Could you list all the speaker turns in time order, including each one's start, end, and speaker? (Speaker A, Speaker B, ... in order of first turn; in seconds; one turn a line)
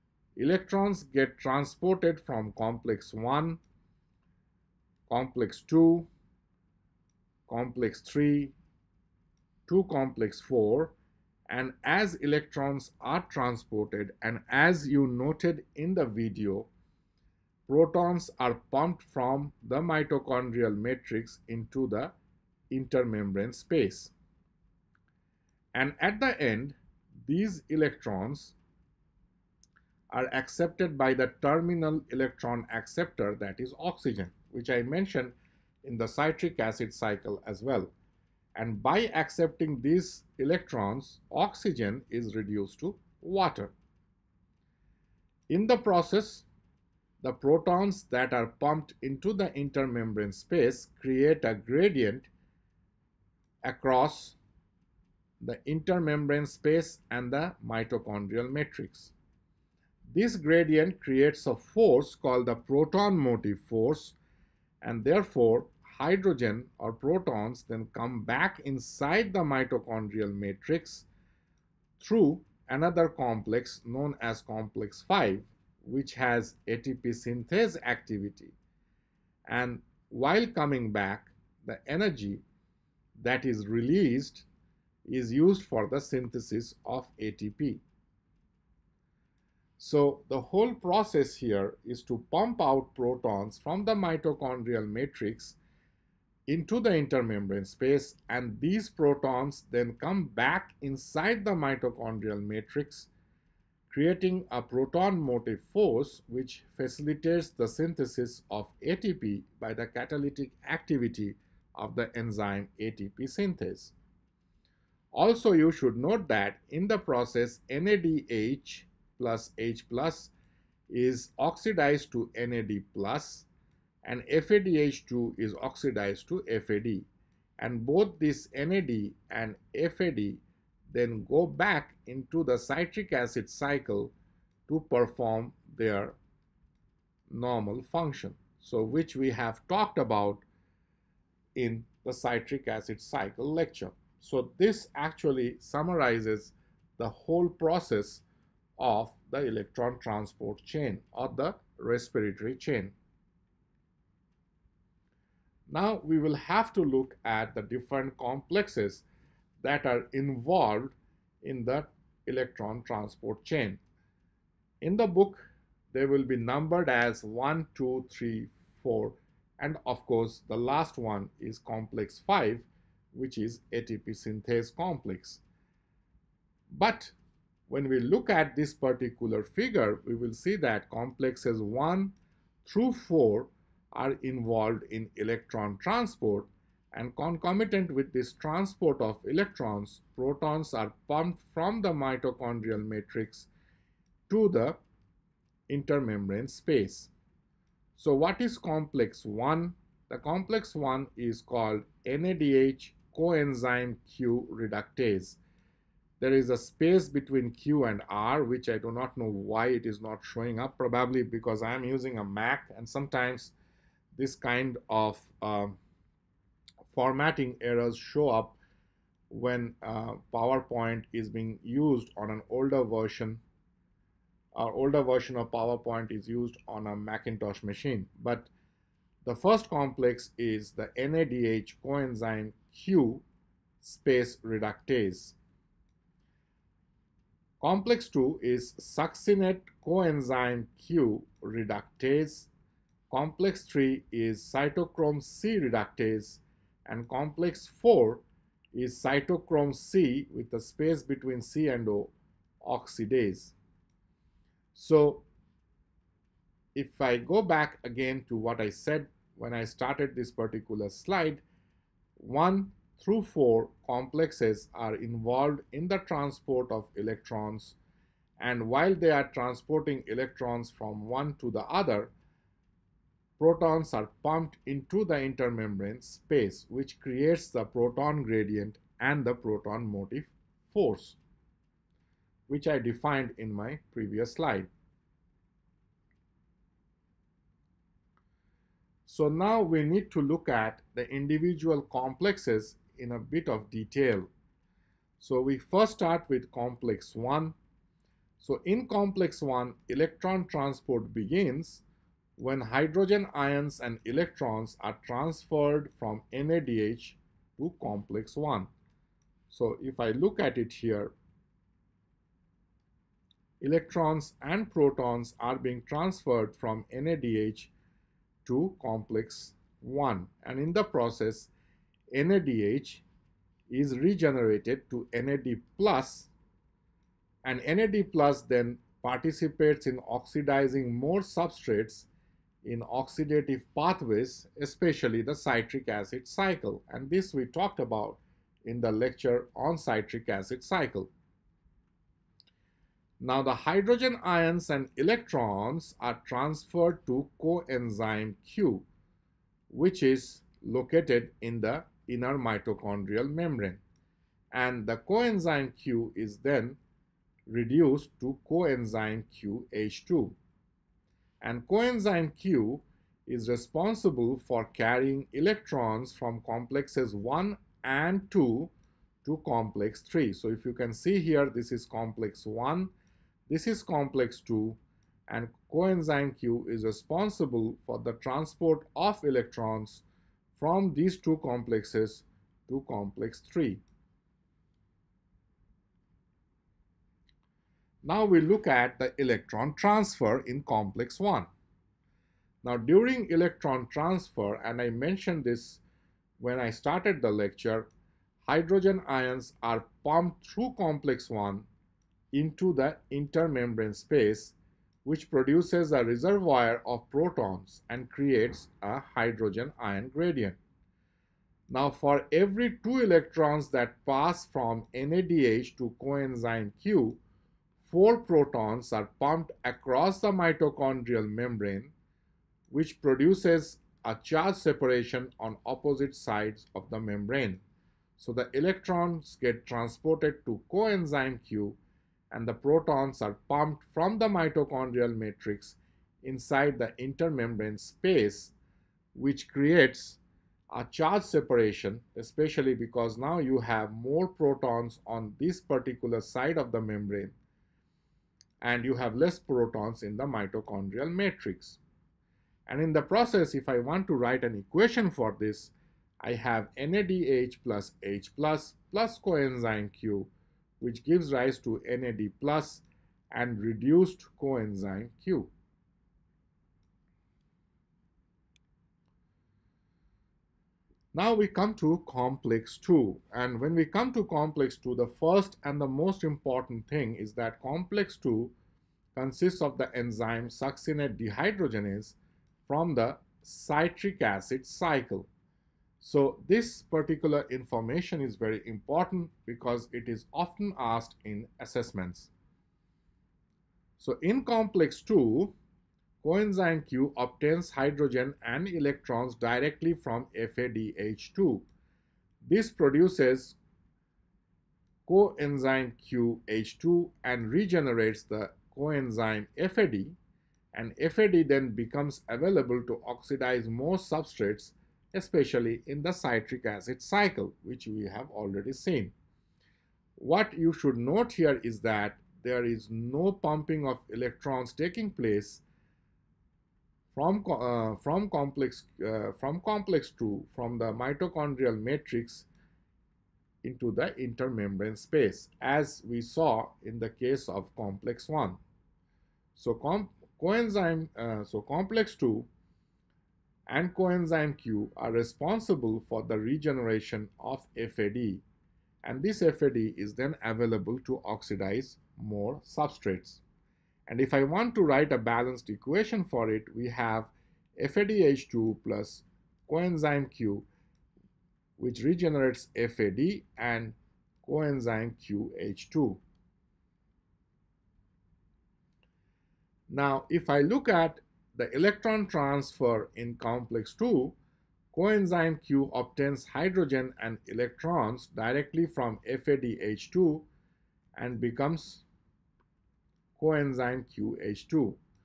Speaker A: 0.4-3.6
Speaker A: 5.1-6.1
Speaker A: 7.5-8.6
Speaker A: 9.7-11.0
Speaker A: 11.5-16.7
Speaker A: 17.7-22.1
Speaker A: 22.7-24.1
Speaker A: 25.7-28.6
Speaker A: 30.1-37.9
Speaker A: 38.5-43.7
Speaker A: 45.5-46.5
Speaker A: 47.2-52.3
Speaker A: 53.6-54.4
Speaker A: 55.4-59.1
Speaker A: 60.1-64.2
Speaker A: 64.8-71.1
Speaker A: 72.0-78.5
Speaker A: 79.5-82.4
Speaker A: 83.2-84.5
Speaker A: 85.1-87.8
Speaker A: 89.8-95.6
Speaker A: 96.5-103.1
Speaker A: 103.9-113.9
Speaker A: 115.1-120.3
Speaker A: 120.9-123.5
Speaker A: 124.0-127.1
Speaker A: 127.6-134.1
Speaker A: 134.7-136.2
Speaker A: 137.3-140.4
Speaker A: 141.6-148.2
Speaker A: 148.8-152.9
Speaker A: 155.7-159.1
Speaker A: 159.6-163.8
Speaker A: 164.8-175.4
Speaker A: 176.7-177.1
Speaker A: 177.7-193.5
Speaker A: 194.3-194.8
Speaker A: 195.7-197.1
Speaker A: 197.9-205.4
Speaker A: 206.2-213.5
Speaker A: 214.1-215.8
Speaker A: 216.9-218.6
Speaker A: 219.3-223.4
Speaker A: 224.6-228.5
Speaker A: 229.2-233.2
Speaker A: 233.8-235.4
Speaker A: 237.6-242.5
Speaker A: 243.1-253.5
Speaker A: 254.7-255.3
Speaker A: 256.8-261.4
Speaker A: 262.2-267.8
Speaker A: 268.4-272.1
Speaker A: 273.4-281.2
Speaker A: 282.5-284.7
Speaker A: 289.1-294.3
Speaker A: 295.2-297.6
Speaker A: 298.4-301.8
Speaker A: 302.4-308.7
Speaker A: 309.5-311.1
Speaker A: 313.6-317.7
Speaker A: 318.4-321.5
Speaker A: 322.1-323.0
Speaker A: 323.7-326.3
Speaker A: 327.4-332.1
Speaker A: 332.6-341.1
Speaker A: 343.2-348.9
Speaker A: 349.7-353.8
Speaker A: 354.5-356.8
Speaker A: 357.5-360.4
Speaker A: 361.4-368.7
Speaker A: 369.2-372.9
Speaker A: 373.5-380.0
Speaker A: 380.6-383.8
Speaker A: 388.0-391.5
Speaker A: 392.6-395.8
Speaker A: 396.4-397.9
Speaker A: 398.4-401.7
Speaker A: 402.3-410.6
Speaker A: 411.7-417.2
Speaker A: 417.8-421.9
Speaker A: 422.7-427.6
Speaker A: 428.2-431.8
Speaker A: 432.3-438.6
Speaker A: 439.1-440.2
Speaker A: 440.7-447.4
Speaker A: 448.6-451.8
Speaker A: 452.7-465.5
Speaker A: 471.1-478.6
Speaker A: 479.1-482.1
Speaker A: 482.7-485.3
Speaker A: 486.0-492.3
Speaker A: 494.0-495.5
Speaker A: 496.2-501.7
Speaker A: 502.4-503.6
Speaker A: 505.1-510.1
Speaker A: 510.7-519.1
Speaker A: 520.2-525.6
Speaker A: 527.1-532.5
Speaker A: 533.6-538.6
Speaker A: 539.5-542.5
Speaker A: 543.7-548.4
Speaker A: 549.0-553.4
Speaker A: 554.1-560.6
Speaker A: 561.8-566.2
Speaker A: 569.9-574.4
Speaker A: 574.9-580.5
Speaker A: 581.2-582.0
Speaker A: 583.4-585.0